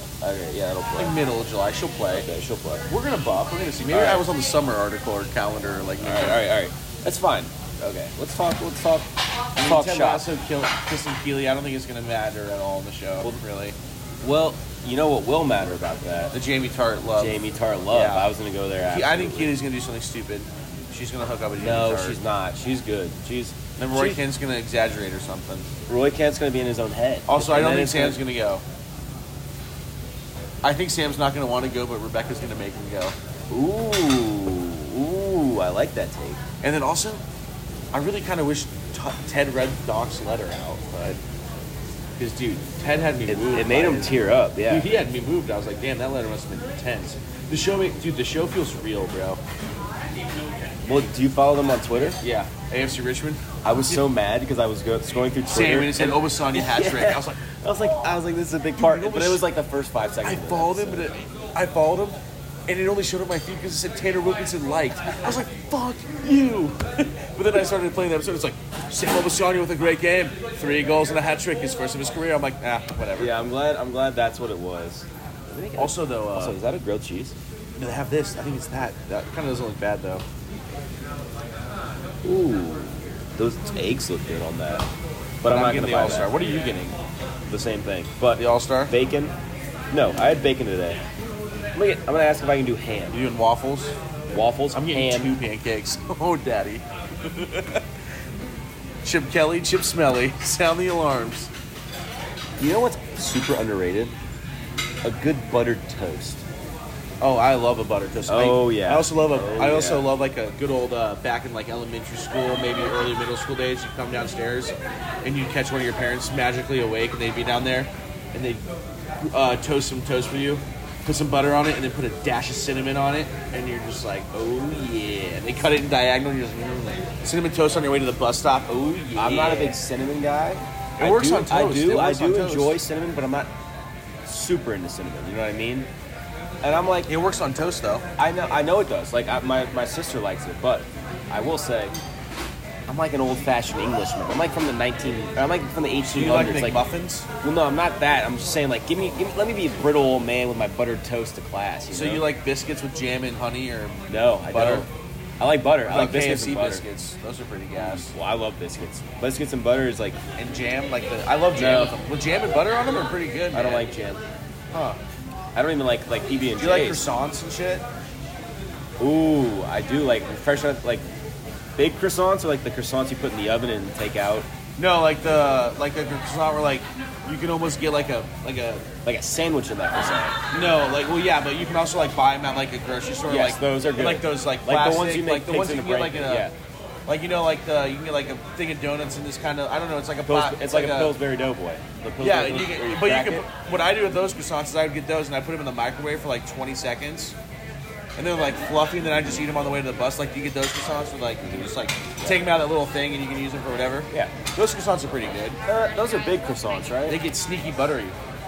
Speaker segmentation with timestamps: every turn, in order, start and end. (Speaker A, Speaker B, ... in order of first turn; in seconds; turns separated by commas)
Speaker A: 0.2-1.2, Speaker B: 1.0-2.3, Speaker A: 2.1-2.9, Speaker B: 2.9-6.4, Speaker A: 3.9-4.2, Speaker A: 6.0-10.2, Speaker B: 9.6-13.8, Speaker A: 14.2-16.3, Speaker B: 16.3-17.4, Speaker A: 17.2-19.6, Speaker B: 17.9-18.3, Speaker B: 18.9-22.2, Speaker A: 21.6-24.2, Speaker B: 23.8-25.7, Speaker A: 25.9-28.2, Speaker B: 27.3-28.6, Speaker B: 30.6-33.1, Speaker A: 33.5-36.4, Speaker B: 36.6-37.2, Speaker B: 37.9-41.2, Speaker B: 42.2-49.4, Speaker A: 43.3-44.9, Speaker A: 50.8-52.2, Speaker B: 52.2-54.0, Speaker A: 53.6-61.1, Speaker B: 55.5-57.4, Speaker B: 58.8-59.5, Speaker B: 60.2-73.3, Speaker A: 73.2-77.3, Speaker B: 75.8-76.6, Speaker B: 77.8-80.2, Speaker A: 82.2-84.9, Speaker A: 85.4-86.3, Speaker B: 85.4-87.0, Speaker A: 87.5-89.3, Speaker B: 88.3-88.9, Speaker A: 89.9-91.0, Speaker A: 91.7-93.2, Speaker B: 93.1-93.9, Speaker A: 94.3-95.3, Speaker B: 94.7-97.8, Speaker B: 99.0-101.5, Speaker A: 102.6-104.1, Speaker A: 105.0-106.4, Speaker B: 107.2-118.6, Speaker A: 108.3-110.0, Speaker B: 119.3-129.8, Speaker A: 129.2-133.5, Speaker B: 131.0-132.8, Speaker A: 134.2-135.9, Speaker A: 136.6-137.1, Speaker B: 137.1-138.1, Speaker A: 138.2-141.9, Speaker A: 142.9-146.8, Speaker B: 146.1-147.3, Speaker A: 147.4-152.2, Speaker B: 151.9-154.9, Speaker A: 154.1-154.9, Speaker A: 155.4-156.8, Speaker B: 155.8-158.1, Speaker A: 158.1-160.2, Speaker B: 160.4-163.9, Speaker A: 161.5-161.9, Speaker A: 163.5-164.2, Speaker B: 164.7-165.0, Speaker A: 165.5-167.0, Speaker B: 166.6-167.8, Speaker A: 169.0-171.1, Speaker A: 171.8-174.5, Speaker B: 174.8-178.9, Speaker A: 179.0-180.4, Speaker B: 180.5-186.5, Speaker A: 183.3-186.5, Speaker B: 187.1-191.1, Speaker A: 190.3-193.4, Speaker B: 192.2-197.3, Speaker B: 198.2-205.6, Speaker A: 205.7-207.2, Speaker B: 207.1-208.2